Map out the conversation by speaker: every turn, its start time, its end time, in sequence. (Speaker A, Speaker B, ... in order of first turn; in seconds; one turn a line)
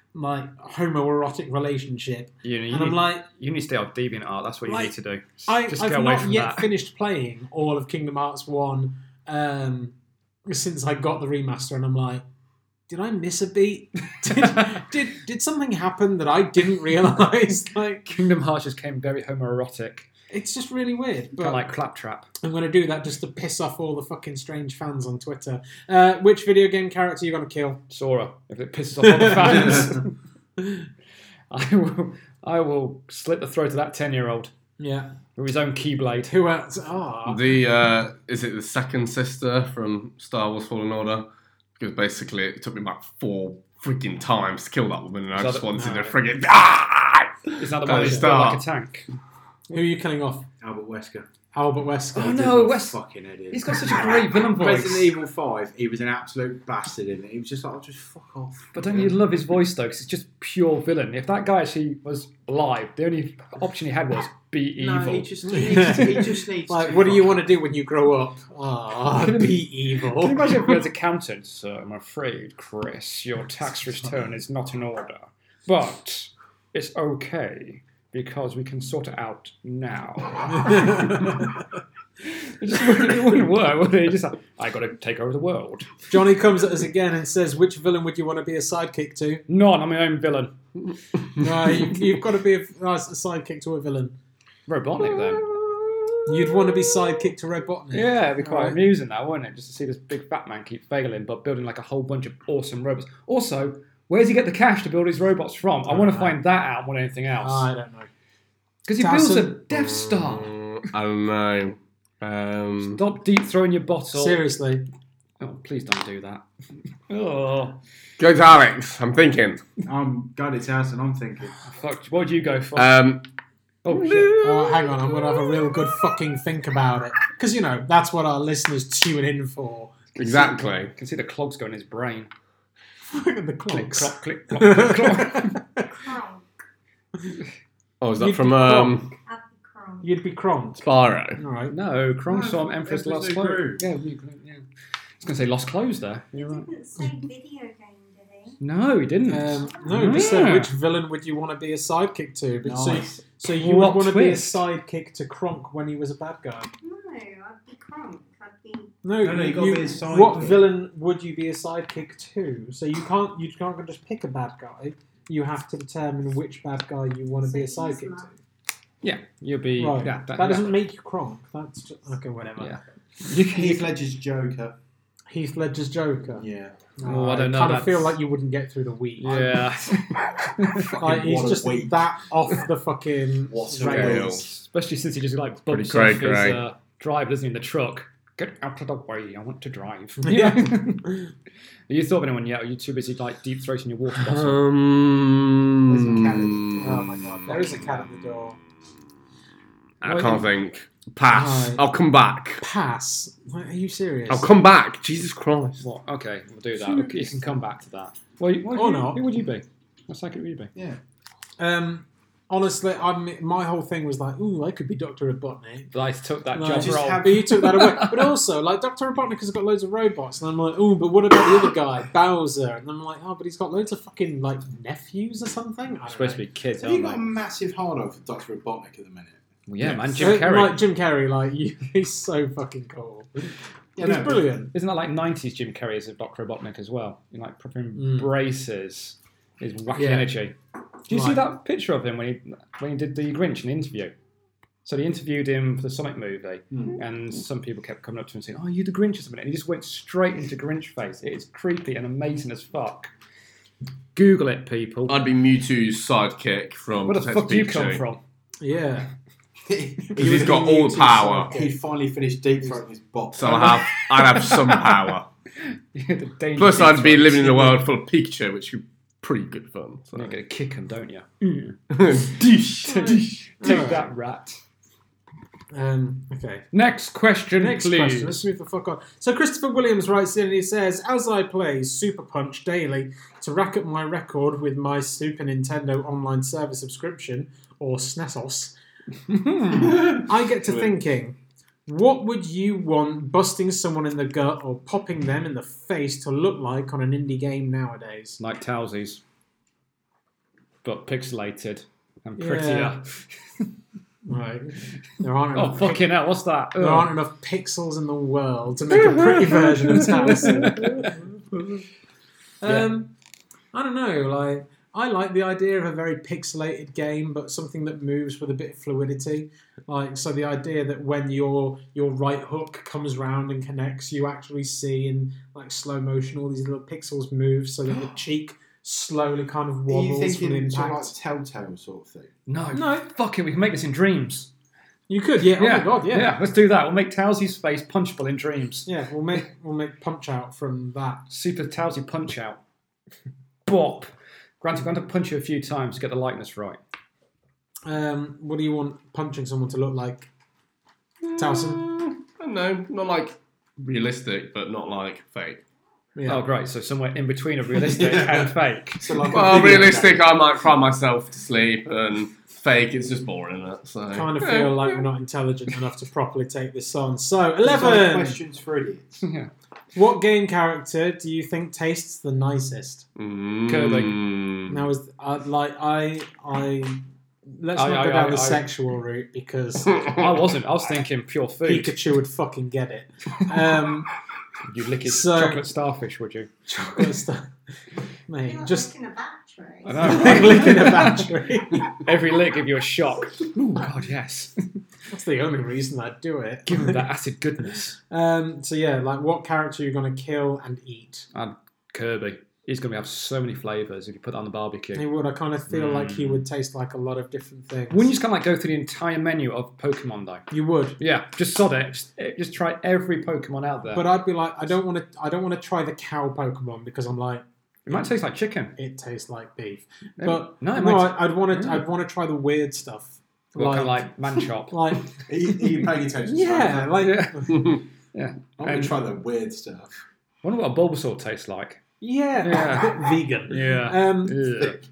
Speaker A: 0.1-3.2
Speaker B: 2.4-6.7
Speaker A: 5.5-9.9
Speaker A: 10.5-12.2
Speaker A: 12.9-18.1
Speaker B: 18.1-20.1
Speaker A: 20.3-21.7
Speaker B: 21.4-22.3
Speaker A: 22.4-27.8
Speaker B: 27.9-30.1
Speaker A: 29.0-30.0
Speaker B: 31.5-34.5
Speaker A: 34.8-35.1
Speaker B: 35.4-36.3
Speaker A: 36.2-37.4
Speaker C: 37.3-41.3
Speaker C: 41.8-48.6
Speaker B: 45.3-45.8
Speaker A: 45.8-46.1
Speaker B: 47.6-49.1
Speaker A: 47.9-48.3
Speaker A: 49.7-50.5
Speaker D: 50.6-51.3
Speaker A: 51.5-52.6
Speaker B: 52.1-53.0
Speaker D: 52.2-59.2
Speaker B: 53.5-55.1
Speaker B: 58.7-66.3
Speaker D: 64.8-67.5
Speaker A: 65.5-70.8
Speaker B: 69.1-81.4
Speaker A: 80.6-81.3
Speaker B: 82.2-86.0
Speaker A: 86.1-89.4
Speaker B: 89.5-90.5
Speaker A: 91.3-94.1
Speaker C: 91.4-91.9
Speaker B: 94.7-95.5
Speaker C: 95.0-97.3
Speaker A: 96.2-98.8
Speaker B: 97.9-107.7
Speaker A: 105.9-106.3
Speaker A: 107.4-108.1
Speaker B: 108.8-110.6
Speaker A: 109.0-109.6
Speaker C: 109.7-113.0
Speaker B: 112.9-114.4
Speaker A: 114.1-114.8
Speaker B: 115.4-116.4
Speaker B: 117.1-117.8
Speaker C: 118.2-119.7
Speaker D: 119.8-121.5
Speaker B: 121.6-123.0
Speaker C: 122.8-123.2
Speaker B: 123.8-124.3
Speaker C: 123.9-126.2
Speaker A: 124.4-129.9
Speaker C: 130.2-130.9
Speaker B: 130.9-132.3
Speaker A: 133.1-135.8
Speaker B: 133.7-135.6
Speaker E: 135.8-136.5
Speaker C: 138.0-139.1
Speaker A: 138.2-139.0
Speaker E: 139.2-140.2
Speaker A: 140.0-140.8
Speaker C: 140.8-141.4
Speaker A: 141.3-141.7
Speaker B: 141.7-144.6
Speaker D: 142.3-143.8
Speaker B: 145.2-146.7
Speaker E: 146.3-148.6
Speaker B: 148.6-150.7
Speaker A: 149.3-156.7
Speaker D: 152.6-153.2
Speaker B: 153.5-154.6
Speaker E: 156.8-158.9
Speaker A: 159.0-168.3
Speaker D: 159.2-160.7
Speaker E: 167.4-168.3
Speaker B: 169.0-170.8
Speaker A: 169.8-172.8
Speaker B: 172.6-173.9
Speaker D: 173.4-174.8
Speaker A: 175.3-176.4
Speaker D: 176.3-176.8
Speaker A: 177.0-179.5
Speaker B: 177.0-178.2
Speaker B: 179.2-180.9
Speaker D: 180.6-182.2
Speaker A: 181.0-184.3
Speaker D: 183.5-184.4
Speaker C: 183.8-184.4
Speaker B: 183.9-191.1
Speaker C: 185.7-186.6
Speaker A: 190.2-191.3
Speaker B: 191.9-194.6
Speaker C: 194.1-197.5
Speaker A: 195.9-198.6
Speaker D: 196.1-196.6
Speaker B: 197.5-198.2
Speaker B: 200.0-200.5
Speaker C: 200.0-202.6
Speaker A: 201.3-201.8
Speaker A: 202.6-204.5
Speaker C: 204.3-205.8
Speaker B: 205.8-210.7
Speaker A: 208.7-209.2
Speaker A: 211.6-215.9
Speaker B: 215.9-218.3
Speaker A: 216.5-226.4
Speaker D: 216.7-217.7
Speaker B: 226.1-227.2
Speaker D: 226.8-230.4
Speaker B: 229.7-230.8
Speaker A: 230.2-234.7
Speaker D: 233.9-234.5
Speaker B: 234.7-240.6
Speaker A: 237.9-238.3
Speaker B: 241.1-244.1
Speaker A: 241.1-241.4
Speaker B: 244.8-253.1
Speaker D: 246.7-247.0
Speaker B: 254.1-255.2
Speaker C: 255.1-258.0
Speaker B: 257.1-258.2
Speaker A: 258.6-259.1
Speaker D: 259.6-263.8
Speaker A: 260.1-261.8
Speaker C: 260.2-261.5
Speaker C: 263.3-265.3
Speaker B: 263.9-264.9
Speaker B: 265.6-267.8
Speaker C: 266.6-270.3
Speaker B: 270.1-271.8
Speaker C: 271.9-273.8
Speaker B: 272.8-274.6
Speaker A: 272.9-274.0
Speaker A: 275.7-276.6
Speaker B: 276.7-278.4
Speaker A: 277.6-288.7
Speaker B: 289.3-290.0
Speaker A: 289.7-298.4
Speaker D: 289.8-290.9
Speaker B: 298.4-299.2
Speaker B: 300.8-303.6
Speaker A: 302.4-302.9
Speaker A: 304.2-306.1
Speaker B: 305.5-307.1
Speaker A: 306.8-310.9
Speaker C: 308.9-311.1
Speaker B: 309.9-311.1
Speaker A: 312.6-313.1
Speaker A: 313.7-331.1
Speaker D: 329.9-332.3
Speaker B: 332.5-334.5
Speaker A: 332.7-333.1
Speaker A: 335.1-336.4
Speaker B: 335.4-338.9
Speaker A: 338.9-341.2
Speaker B: 341.3-342.6
Speaker B: 343.6-346.8
Speaker A: 347.9-350.3
Speaker C: 351.2-355.6
Speaker A: 351.4-351.8
Speaker A: 356.1-356.4
Speaker B: 356.2-359.3
Speaker D: 357.7-360.4
Speaker C: 359.3-365.1
Speaker A: 359.4-359.7
Speaker A: 364.1-368.4
Speaker D: 367.6-369.2
Speaker B: 369.2-369.5
Speaker A: 369.9-373.0
Speaker C: 373.1-374.8
Speaker B: 373.7-374.2
Speaker A: 374.7-377.0
Speaker A: 377.5-380.1
Speaker B: 377.7-378.6
Speaker B: 380.0-382.0
Speaker A: 381.6-384.1
Speaker B: 384.6-386.5
Speaker A: 385.0-385.6
Speaker A: 386.7-387.5
Speaker A: 388.3-388.9
Speaker E: 388.4-390.4
Speaker B: 389.8-391.3
Speaker A: 390.0-391.9
Speaker B: 392.0-394.6
Speaker A: 395.1-397.0
Speaker B: 396.6-397.9
Speaker A: 398.1-401.3
Speaker B: 401.3-405.0
Speaker A: 404.9-408.1
Speaker B: 405.7-406.4
Speaker B: 407.9-414.0
Speaker A: 410.5-411.0
Speaker A: 413.9-418.1
Speaker B: 417.9-418.8
Speaker A: 418.8-424.1
Speaker B: 420.2-421.9
Speaker B: 423.5-425.1
Speaker A: 424.7-425.1
Speaker D: 425.2-427.1
Speaker A: 426.2-427.7
Speaker B: 427.0-428.9
Speaker D: 428.6-430.0
Speaker B: 430.4-431.8
Speaker A: 432.0-434.7
Speaker B: 432.4-434.8